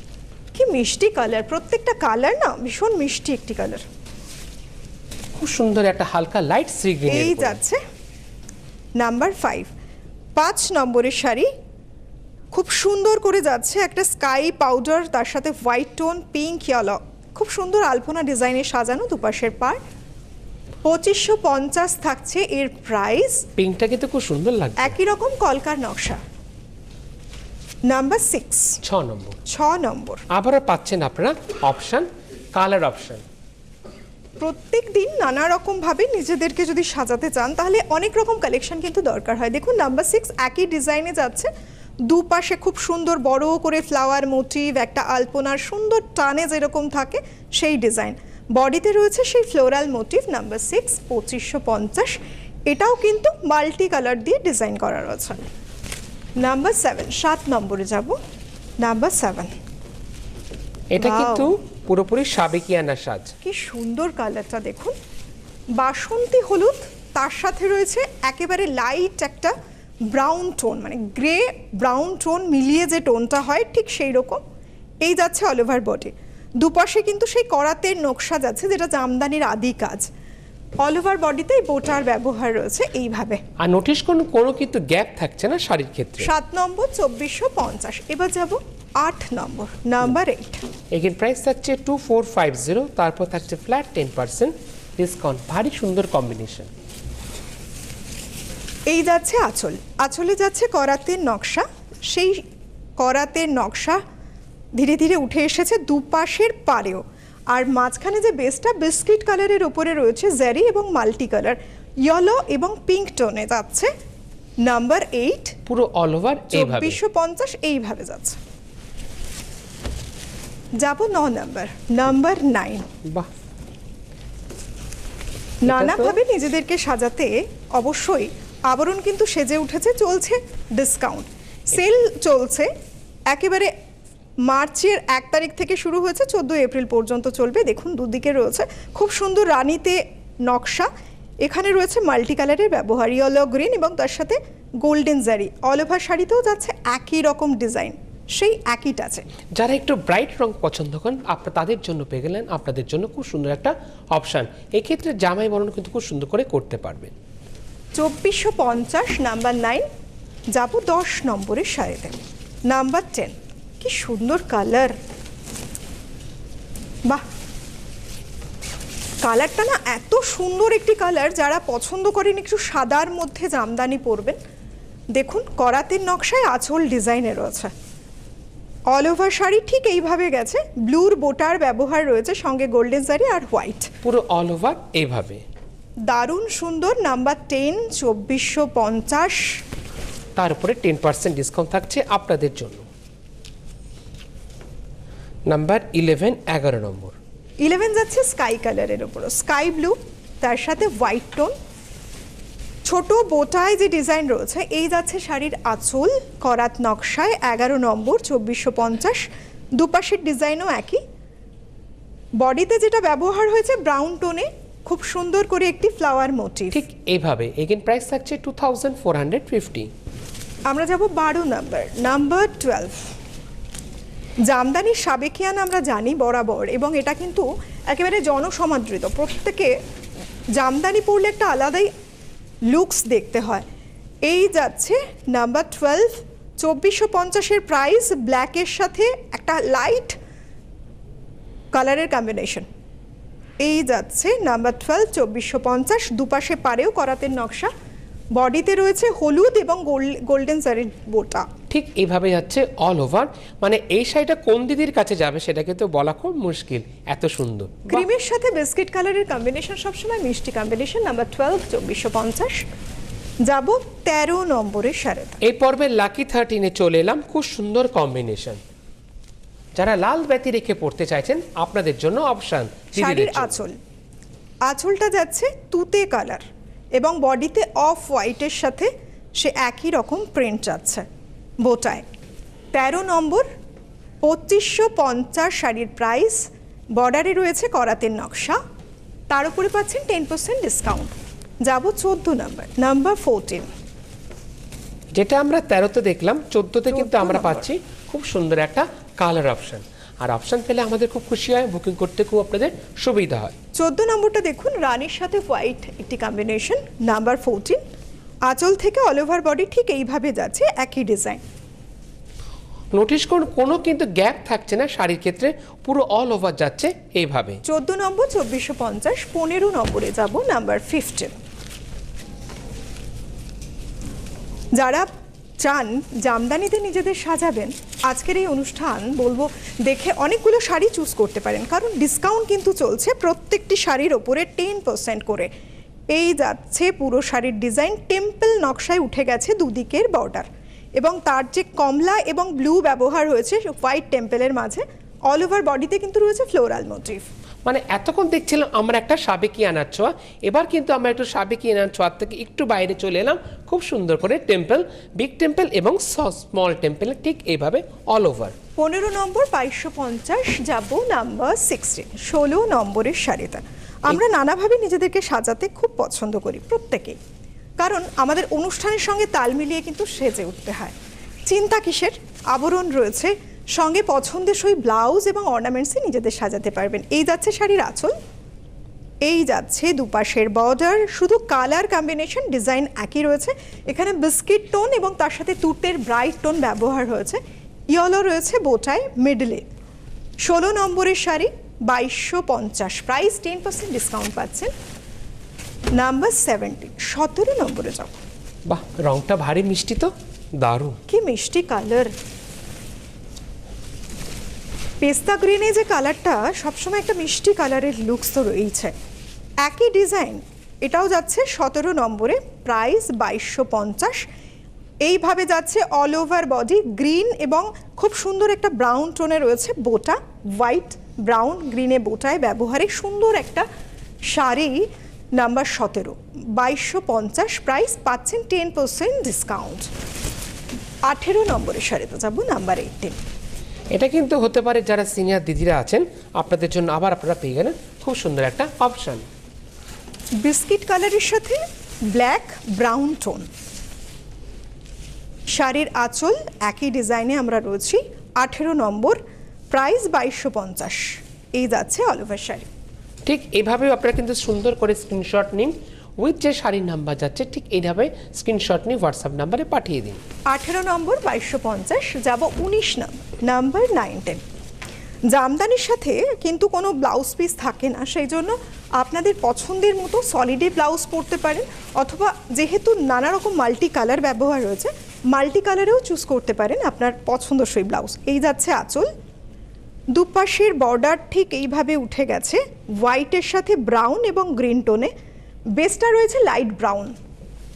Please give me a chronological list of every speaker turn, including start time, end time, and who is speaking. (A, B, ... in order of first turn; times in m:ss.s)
0:00.5-0:03.8 A
0:05.4-0:07.6 B
0:07.1-0:07.8 A
0:09.0-0:09.7 A
0:10.4-0:11.5 A
0:12.5-0:19.8 A
0:20.8-0:23.5 A
0:23.6-0:25.0 B
0:24.8-0:26.2 A
0:27.9-0:28.8 A
0:28.8-0:29.4 B
0:29.5-0:30.2 A
0:30.3-0:33.2 B
0:34.4-0:41.5 A
0:42.1-0:52.2 A
0:52.7-0:55.5 A
0:56.4-0:58.2 A
0:58.8-0:59.5 A
1:00.9-1:03.3 B
1:01.0-1:01.5 A
1:03.4-1:05.0 A
1:05.8-1:09.5 A
1:10.1-1:14.4 A
1:15.0-1:20.1 A
1:20.8-1:23.4 A
1:23.6-1:26.3 B
1:26.2-1:30.6 A
1:30.9-1:36.7 B
1:38.9-1:42.4 A
1:43.0-1:44.0 A
1:44.8-1:53.9 A
1:54.6-1:55.6 A
1:55.7-1:57.0 B
1:56.5-1:58.4 A
2:00.8-2:02.9 A
2:05.6-2:12.7 A
2:05.7-2:06.2 B
2:13.3-2:13.7 A
2:14.4-2:29.3 A
2:29.6-2:37.1 B
2:38.0-2:39.9 A
2:40.5-2:42.2 A
2:42.7-2:45.0 A
2:49.2-2:54.4 A
2:55.2-2:57.7 A
2:58.9-3:03.9 A
3:04.0-3:05.4 B
3:06.1-3:09.6 A
3:10.4-3:12.9 B
3:15.5-3:17.2 B
3:17.6-3:21.5 A
3:22.9-3:31.0 A
3:32.4-3:36.8 A
3:36.7-3:39.9 B
3:40.7-3:43.0 A
3:44.5-3:49.7 A
3:50.6-3:51.9 A
3:52.7-3:53.6 A
3:54.3-4:00.2 A
4:01.7-4:02.7 A
4:03.6-4:07.7 A
4:08.4-4:11.5 A
4:11.7-4:18.0 B
4:17.9-4:22.7 A
4:23.5-4:25.4 A
4:25.4-4:28.6 B
4:29.8-4:33.6 B
4:33.0-4:33.8 A
4:34.7-4:36.4 A
4:37.0-4:41.0 A
4:41.6-4:42.0 A
4:42.7-4:43.5 A
4:44.2-4:48.6 A
4:49.3-4:53.7 A
4:55.2-5:03.5 B
4:56.9-4:57.7 A
5:03.8-5:07.8 A
5:08.5-5:11.4 A
5:12.9-5:17.6 B
5:17.6-5:21.4 A
5:24.8-5:25.1 A
5:25.6-5:35.5 A
5:36.1-5:40.5 A
5:41.0-5:47.2 A
5:47.7-5:58.6 B
5:58.8-6:07.2 A
6:07.8-6:11.0 A
6:11.5-6:18.1 A
6:19.2-6:29.7 A
6:30.4-6:34.7 A
6:36.0-6:38.2 A
6:38.7-6:41.0 B
6:41.1-6:42.1 A
6:45.0-6:48.9 A
6:49.6-6:54.3 A
6:55.0-7:03.7 A
7:04.3-7:09.9 A
7:11.1-7:13.2 A
7:13.9-7:19.2 B
7:20.4-7:23.5 A
7:25.5-7:29.2 A
7:29.7-7:32.7 A
7:33.3-7:40.2 B
7:40.5-7:44.4 A
7:45.3-7:59.1 A
8:00.1-8:05.1 A
8:05.8-8:07.2 A